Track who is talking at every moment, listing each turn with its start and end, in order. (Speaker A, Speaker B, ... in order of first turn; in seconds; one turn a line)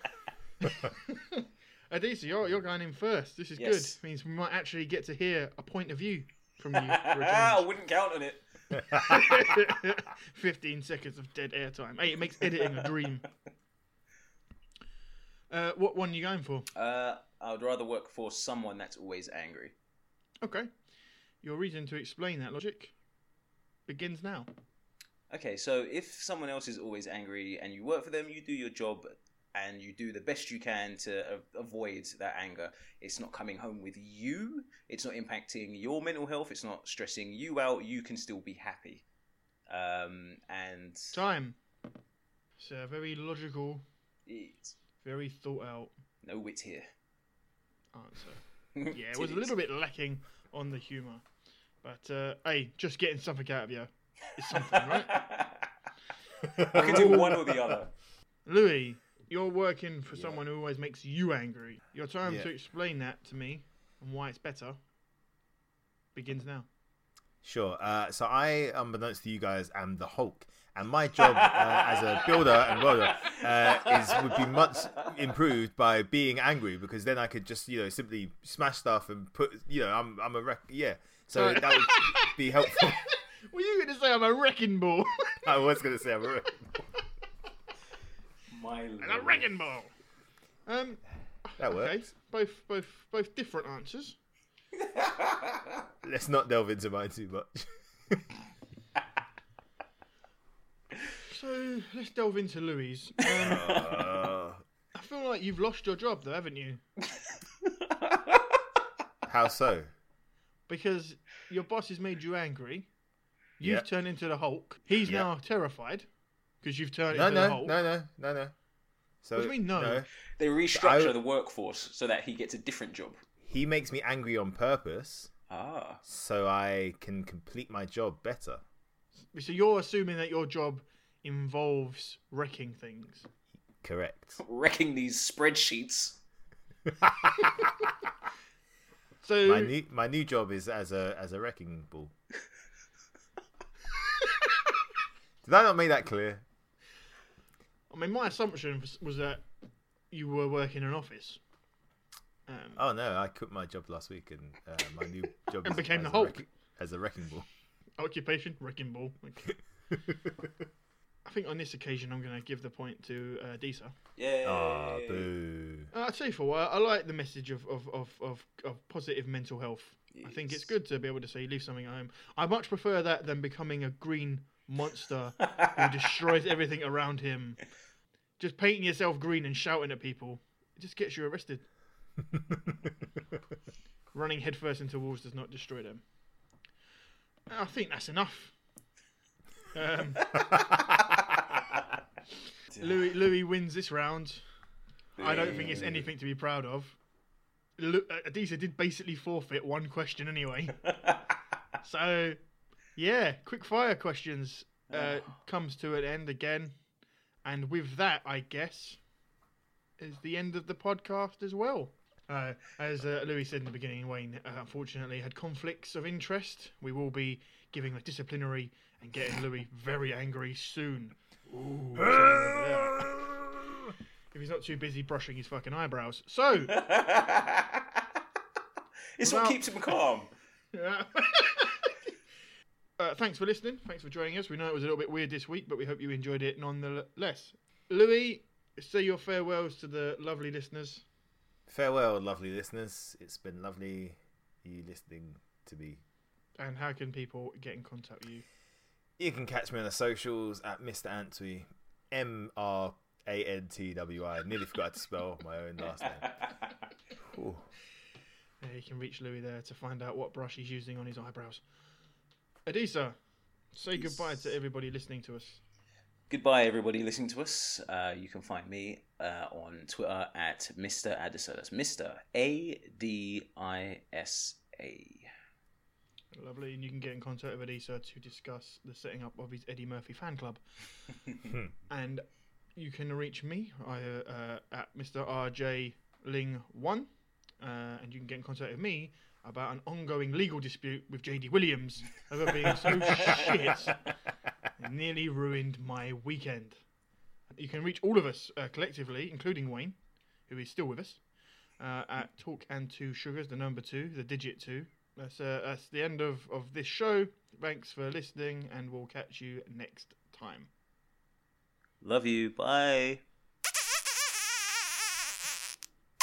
Speaker A: 0.6-7.6
Speaker B: 3.6-4.0
Speaker B: 6.7-9.5
Speaker C: 8.8-9.2
Speaker A: 9.0-13.2
Speaker A: 15.5-16.7
Speaker B: 16.7-19.7
Speaker A: 20.4-20.7
Speaker A: 21.4-22.9
Speaker A: 23.9-24.5
Speaker B: 25.3-39.0
Speaker B: 39.7-41.1
Speaker A: 41.1-41.6
Speaker A: 42.6-43.8
Speaker B: 44.2-44.8
Speaker A: 45.0-45.9
Speaker B: 46.2-46.9
Speaker A: 47.9-51.2
Speaker B: 48.8-49.5
Speaker A: 51.8-55.2
Speaker B: 54.5-55.7
Speaker C: 56.4-57.3
Speaker A: 56.7-57.4
Speaker B: 56.7-57.9
Speaker A: 58.5-64.8
Speaker C: 62.2-62.5
Speaker A: 66.1-66.7
Speaker C: 67.4-83.0
Speaker B: 71.2-74.6
Speaker A: 81.3-85.7
Speaker C: 85.4-86.7
Speaker B: 88.5-89.5
Speaker A: 89.0-89.9
Speaker A: 90.7-94.2
Speaker C: 91.6-92.1
Speaker B: 94.8-95.7
Speaker C: 96.0-98.2
Speaker A: 101.2-104.0
Speaker C: 103.3-104.6
Speaker A: 104.9-106.8
Speaker B: 107.6-108.6
Speaker C: 109.2-109.9
Speaker A: 110.7-112.9
Speaker A: 113.6-116.1
Speaker C: 113.6-113.8
Speaker A: 116.6-117.7
Speaker C: 117.1-118.5
Speaker C: 119.2-120.1
Speaker A: 119.3-120.0
Speaker B: 120.4-123.2
Speaker C: 120.7-121.2
Speaker C: 123.4-125.3
Speaker B: 125.5-126.0
Speaker C: 126.0-128.6
Speaker A: 129.3-133.2
Speaker C: 133.8-134.4
Speaker B: 134.4-136.2
Speaker C: 136.9-137.5
Speaker A: 139.2-139.7
Speaker C: 139.4-142.1
Speaker C: 145.4-146.4
Speaker A: 147.9-149.4
Speaker A: 150.1-151.4
Speaker A: 152.5-152.8
Speaker C: 152.8-157.5
Speaker A: 155.6-156.4
Speaker A: 158.0-159.5
Speaker A: 161.2-163.9
Speaker B: 164.2-165.3
Speaker C: 164.4-165.9
Speaker A: 165.9-177.6
Speaker B: 170.1-170.7
Speaker B: 175.4-175.8
Speaker A: 178.4-181.6
Speaker A: 184.1-186.0
Speaker A: 187.5-188.5
Speaker A: 189.7-190.3
Speaker C: 190.5-190.8
Speaker B: 192.7-193.1
Speaker A: 192.8-194.4
Speaker B: 195.2-195.9
Speaker A: 195.2-197.0
Speaker A: 197.8-200.8
Speaker B: 200.9-201.2
Speaker A: 201.8-202.4
Speaker A: 202.9-206.7
Speaker B: 204.9-205.2
Speaker A: 207.4-209.0
Speaker A: 210.0-223.2
Speaker C: 222.0-223.3
Speaker A: 224.3-226.8
Speaker B: 226.6-228.0
Speaker B: 229.2-230.3
Speaker A: 229.2-229.9
Speaker A: 230.7-232.1
Speaker A: 233.0-241.0
Speaker C: 241.7-246.0
Speaker A: 246.6-248.4
Speaker C: 249.2-256.3
Speaker B: 256.2-256.7
Speaker C: 257.2-257.6
Speaker A: 258.6-261.6
Speaker A: 262.6-263.1
Speaker A: 263.7-265.6
Speaker B: 263.9-264.3
Speaker B: 266.3-275.3
Speaker A: 276.3-280.6
Speaker A: 281.9-282.2
Speaker A: 282.8-287.1
Speaker A: 287.6-294.0
Speaker B: 293.2-293.5
Speaker A: 294.8-296.8
Speaker A: 297.5-300.0
Speaker A: 300.5-301.2
Speaker A: 301.8-310.7
Speaker B: 312.0-313.2